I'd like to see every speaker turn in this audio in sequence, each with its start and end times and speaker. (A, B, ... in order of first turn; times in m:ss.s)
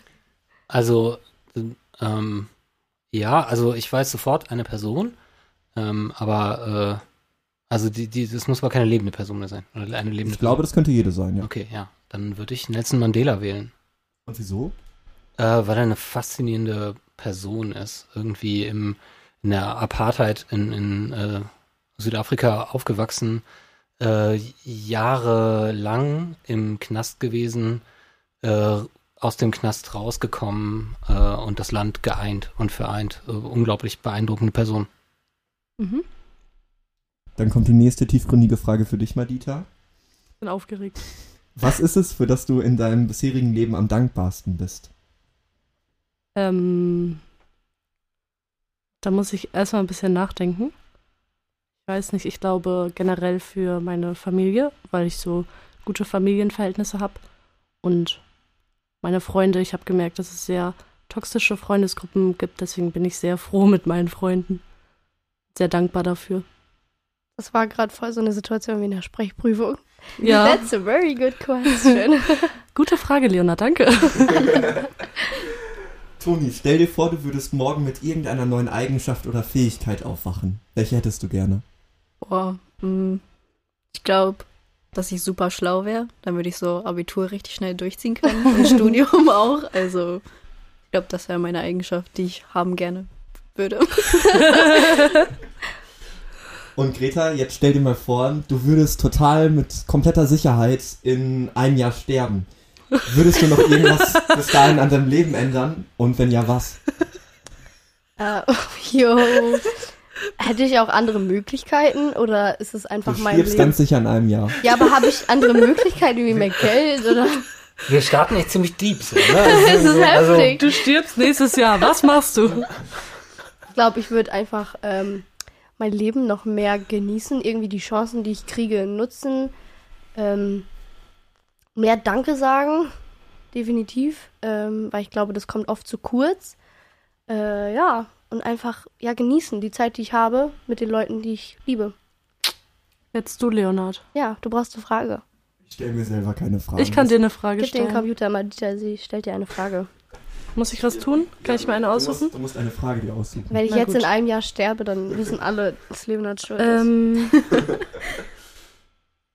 0:00.7-0:02.5 A
0:03.1-0:05.2 A
0:05.8-0:07.0 A
0:07.7-0:10.6 A
0:10.2-0:11.5 B
0:11.4-0:13.7 A
0:14.3-0:14.7 B
0:15.4-0:23.4 A
0:24.0-0:27.8 A
0:28.4-0:34.9 A
0:35.8-0:36.0 C
0:37.4-0:39.7 B
0:40.4-0:41.0 C
0:41.6-0:44.9 B
0:46.4-0:47.2 C
0:49.0-0:50.7 C
0:51.8-0:57.2 C
0:57.8-0:58.2 C
0:59.0-1:04.6 C
1:05.5-1:06.4 C
1:07.4-1:12.6 D
1:10.2-1:10.6 C
1:12.8-1:14.4 C
1:14.5-1:14.8 B
1:16.2-1:21.6 B
1:22.2-1:23.2 E
1:23.9-1:30.2 E
1:30.9-1:34.8 E
1:36.8-1:42.5 B
1:43.0-1:46.8 B
1:48.2-1:49.8 D
1:50.4-1:53.8 D
1:53.0-1:54.6 B
1:54.6-1:57.4 D
1:57.9-2:00.6 A
1:59.4-2:00.9 D
2:00.5-2:02.7 C
2:03.7-2:05.2 D
2:05.8-2:09.5 D
2:10.2-2:10.6 D
2:11.8-2:12.9 D
2:13.5-2:16.5 D
2:17.3-2:21.9 D
2:23.1-2:24.0 C
2:24.1-2:25.2 D
2:25.7-2:27.1 B
2:26.8-2:28.1 C
2:27.6-2:29.9 D
2:30.6-2:32.3 C
2:30.9-2:33.6 B
2:33.5-2:37.8 D
2:33.7-2:34.1 C
2:36.6-2:37.4 C